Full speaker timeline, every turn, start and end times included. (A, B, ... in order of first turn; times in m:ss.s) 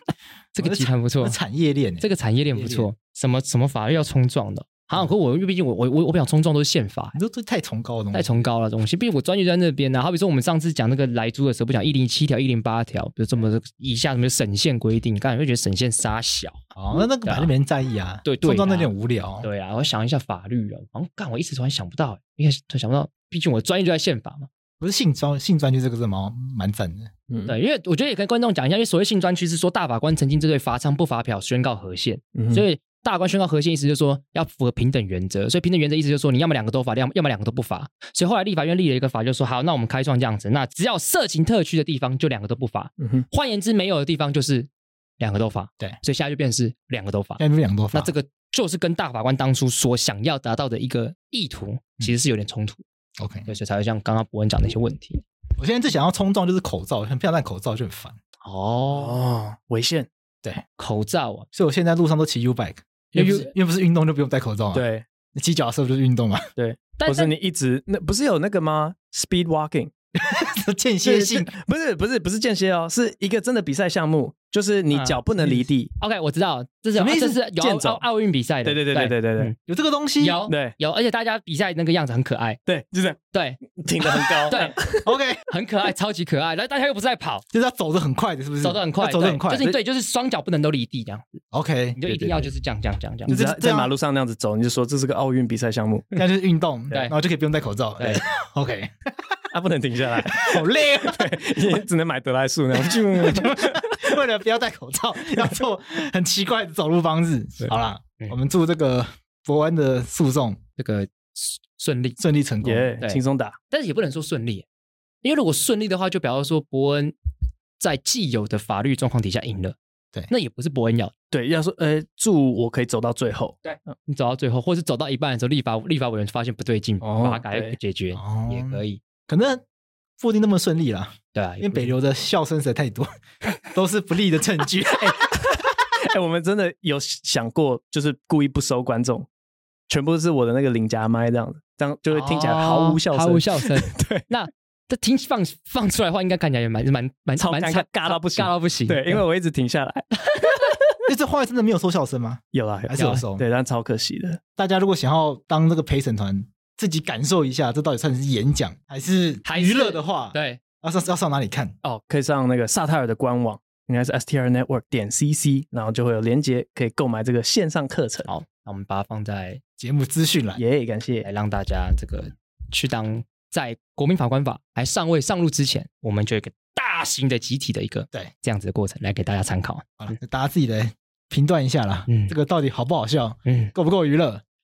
0:00.5-0:01.4 A
0:00.6-0:02.9 B
0:02.0-0:07.2 A
0:07.1-0:08.4 B
0:08.1-0:17.5 A
0:16.7-0:19.5 B
0:18.2-0:18.9 A
0:19.4-0:24.5 A
0:24.8-0:27.1 B
0:27.3-0:27.6 C
0:27.5-0:52.8 A
0:32.3-0:32.6 C
0:43.0-0:43.2 C
0:47.4-0:48.1 B
0:53.2-0:53.5 B
0:53.4-0:55.2 A
0:55.6-0:58.2 B
0:58.4-0:59.2 A
0:58.9-1:00.1 C
1:00.8-1:01.5 A
1:01.5-1:06.5 B
1:03.1-1:03.5 C
1:04.7-1:05.0 C
1:06.6-1:09.9 C
1:07.0-1:07.3 A
1:10.2-1:11.5 B
1:11.0-1:15.9 C
1:14.9-1:15.2 A
1:16.0-1:19.5 A
1:17.0-1:18.0 C
1:18.6-1:19.5 C
1:19.6-1:20.4 B
1:20.2-1:22.6 A
1:20.5-1:20.8 C
1:22.7-1:25.1 C
1:23.3-1:23.6 A
1:24.2-1:24.8 A
1:25.0-1:25.4 B
1:25.5-1:27.4 A
1:27.5-1:29.7 B
1:28.6-1:31.4 A
1:31.5-1:32.0 B
1:32.0-1:33.4 A
1:32.0-1:32.5 C
1:33.2-1:36.2 C
1:33.3-1:33.9 B
1:36.2-1:39.1 B
1:38.0-1:38.2 A
1:39.5-1:44.2 C
1:40.2-1:41.8 B
1:42.8-1:50.6 B
1:50.8-1:52.2 A
1:52.2-1:52.9 B
1:52.6-1:53.6 C
1:53.0-1:54.6 A
1:55.2-1:57.1 A
1:57.8-1:59.8 A
2:00.3-2:01.1 A
2:01.3-2:03.6 C
2:03.6-2:09.0 A
2:07.0-2:07.8 C
2:08.1-2:09.6 B
2:10.2-2:13.1 B
2:11.3-2:12.0 A
2:13.7-2:15.2 B
2:14.9-2:19.3 C
2:19.9-2:24.2 C
2:22.1-2:29.2 A
2:27.4-2:30.7 C
2:31.1-2:33.4 B
2:32.5-2:34.4 C
2:32.9-2:33.2 A
2:34.6-2:41.7 B
2:39.4-2:40.6 A
2:41.8-2:48.3 C
2:48.3-2:49.6 A
2:49.8-2:50.6 B
2:50.6-2:51.3 C
2:51.2-3:00.1 A
3:00.0-3:04.4 B
3:02.1-3:02.3 A
3:03.4-3:03.7 A